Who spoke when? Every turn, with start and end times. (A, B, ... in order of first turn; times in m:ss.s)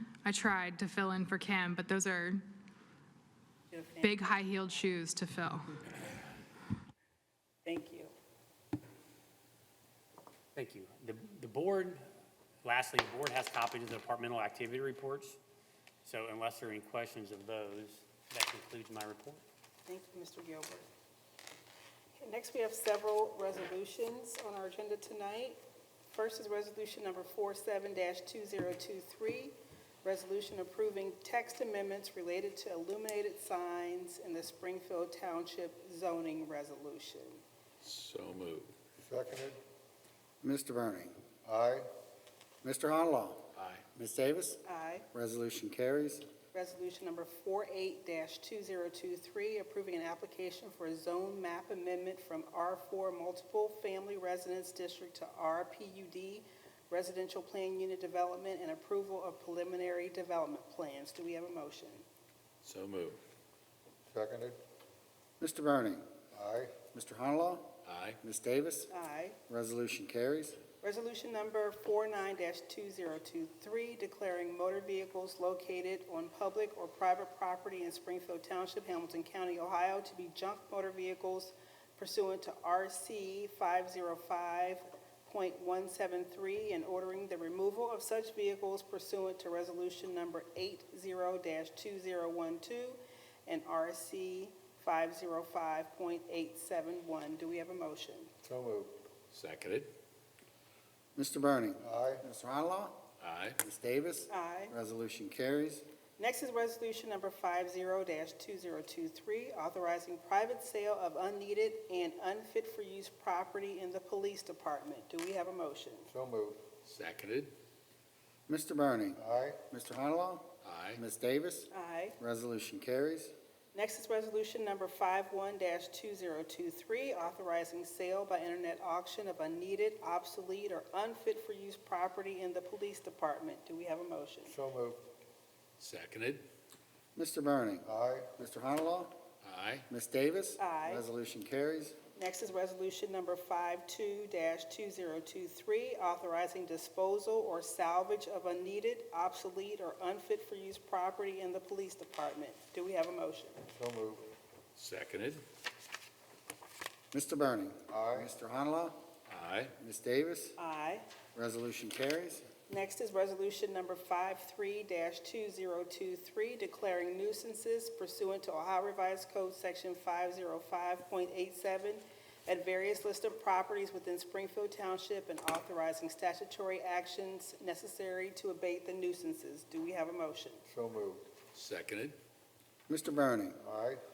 0:00.2-0:02.4 A
0:03.7-0:04.4 B
0:04.0-0:05.8 A
0:07.6-0:08.1 B
0:10.6-0:12.0 C
0:12.6-0:15.4 C
0:16.0-0:19.4 C
0:19.9-0:20.9 B
0:22.2-0:37.4 B
0:37.8-0:38.7 D
0:39.0-0:39.6 E
0:40.4-0:41.2 F
0:41.4-0:41.9 E
0:42.6-0:46.2 F
0:43.6-0:43.8 D
0:44.6-0:45.1 B
0:46.5-1:02.0 B
1:02.6-1:03.2 D
1:04.1-1:04.6 E
1:05.4-1:06.1 F
1:06.3-1:06.8 E
1:06.9-1:08.9 F
1:07.8-1:08.2 D
1:08.9-1:09.4 B
1:09.5-1:10.6 F
1:10.8-1:38.3 B
1:38.4-1:38.9 E
1:39.3-1:39.9 D
1:41.2-1:43.0 F
1:41.8-1:42.2 E
1:43.2-1:43.6 D
1:43.6-1:45.8 F
1:44.3-1:44.8 B
1:46.2-1:56.1 B
1:56.1-1:56.6 E
1:56.8-1:57.5 D
1:58.5-2:03.3 F
1:59.2-1:59.6 E
2:00.6-2:01.0 D
2:01.7-2:02.2 B
2:03.7-2:14.5 B
2:14.5-2:15.0 E
2:15.8-2:16.4 D
2:17.2-2:19.1 F
2:17.8-2:18.3 E
2:19.4-2:19.9 D
2:19.9-2:22.0 F
2:20.6-2:21.1 B
2:22.2-2:33.6 B
2:33.7-2:34.3 E
2:34.8-2:35.4 D
2:37.1-2:39.0 F
2:37.9-2:38.3 E
2:39.3-2:39.7 D
2:39.8-2:40.6 F
2:40.6-2:41.0 B
2:41.4-2:42.5 F
2:42.7-3:00.6 B
3:00.7-3:01.3 E
3:01.5-3:02.2 D
3:02.9-3:03.6 F
3:03.6-3:04.0 E